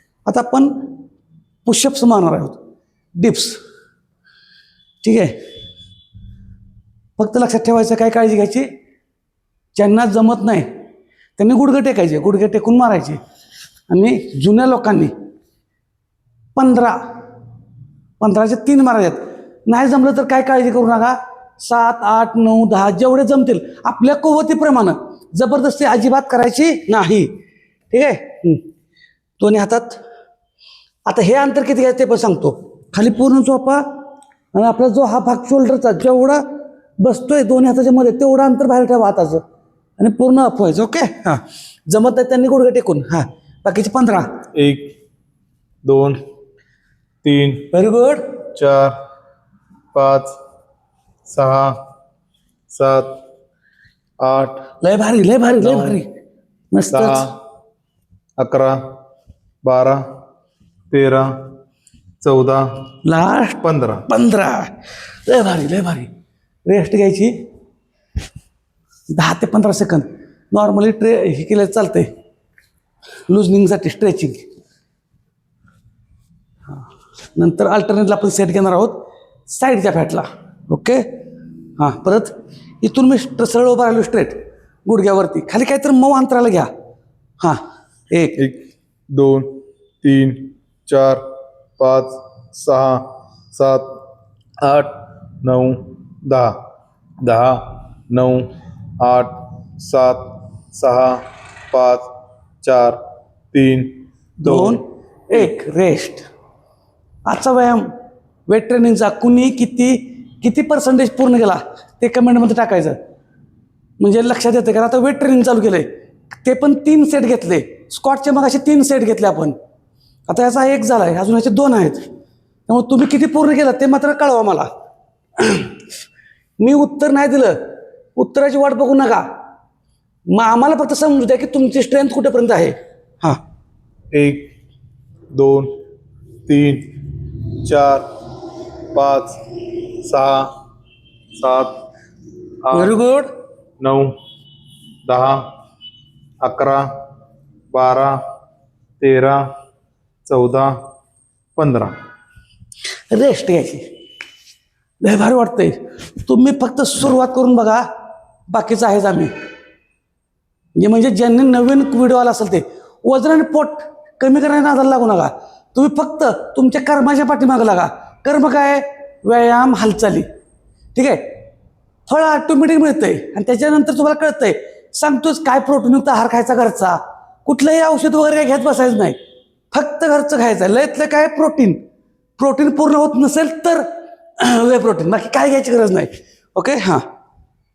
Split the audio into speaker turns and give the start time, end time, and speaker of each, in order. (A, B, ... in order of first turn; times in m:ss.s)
0:00.2-0:00.9 A
0:01.6-0:02.6 A
0:03.2-0:03.6 A
0:05.0-0:05.4 A
0:07.2-0:08.7 A
0:09.7-0:10.7 A
0:11.4-0:13.2 A
0:13.9-0:15.1 A
0:16.6-0:17.0 A
0:18.2-0:27.3 A
0:27.9-0:28.6 A
0:29.4-0:30.0 A
0:31.0-0:33.8 A
0:34.5-0:36.4 A
0:37.0-0:39.4 A
0:40.0-0:44.3 A
0:44.5-0:44.9 B
0:45.8-0:46.2 B
0:47.2-0:47.7 B
0:47.7-0:48.4 A
0:48.5-0:49.0 B
0:49.9-0:50.4 B
0:51.2-0:51.8 B
0:52.7-0:53.1 B
0:54.2-0:54.7 B
0:54.8-0:56.1 A
0:55.6-0:56.0 B
0:56.7-0:57.3 A
0:56.9-0:57.3 B
0:58.4-0:58.8 B
0:59.6-1:00.0 B
1:00.9-1:01.5 B
1:02.2-1:02.8 B
1:03.0-1:04.7 A
1:03.6-1:04.0 B
1:05.2-1:06.1 A
1:06.6-1:07.3 A
1:09.1-1:12.1 A
1:13.3-1:14.4 A
1:17.3-1:21.2 A
1:21.8-1:26.7 A
1:27.4-1:28.4 A
1:28.4-1:31.2 B
1:31.8-1:33.9 B
1:34.6-1:36.6 B
1:37.2-1:42.1 B
1:42.6-1:43.0 B
1:43.5-1:44.8 B
1:44.4-1:46.2 A
1:47.3-1:47.9 A
1:48.5-1:53.0 A
1:54.0-1:59.6 A
2:00.3-2:02.0 A
2:02.7-2:04.7 A
2:05.4-2:05.8 A
2:06.6-2:09.2 A
2:10.3-2:13.4 A
2:14.1-2:14.5 B
2:15.3-2:15.7 B
2:16.5-2:18.0 B
2:18.9-2:20.5 B
2:21.4-2:21.8 B
2:22.6-2:23.0 B
2:22.7-2:23.3 A
2:23.8-2:24.1 B
2:25.0-2:25.4 B
2:26.4-2:26.9 B
2:27.7-2:28.2 B
2:29.0-2:29.4 B
2:30.2-2:30.7 B
2:31.6-2:31.9 B
2:33.1-2:33.8 A
2:35.0-2:37.9 A
2:38.5-2:39.3 A
2:40.8-2:50.2 A
2:50.9-2:51.4 A
2:52.1-2:59.2 A
2:59.7-3:01.8 A
3:02.4-3:03.8 A
3:04.4-3:07.0 A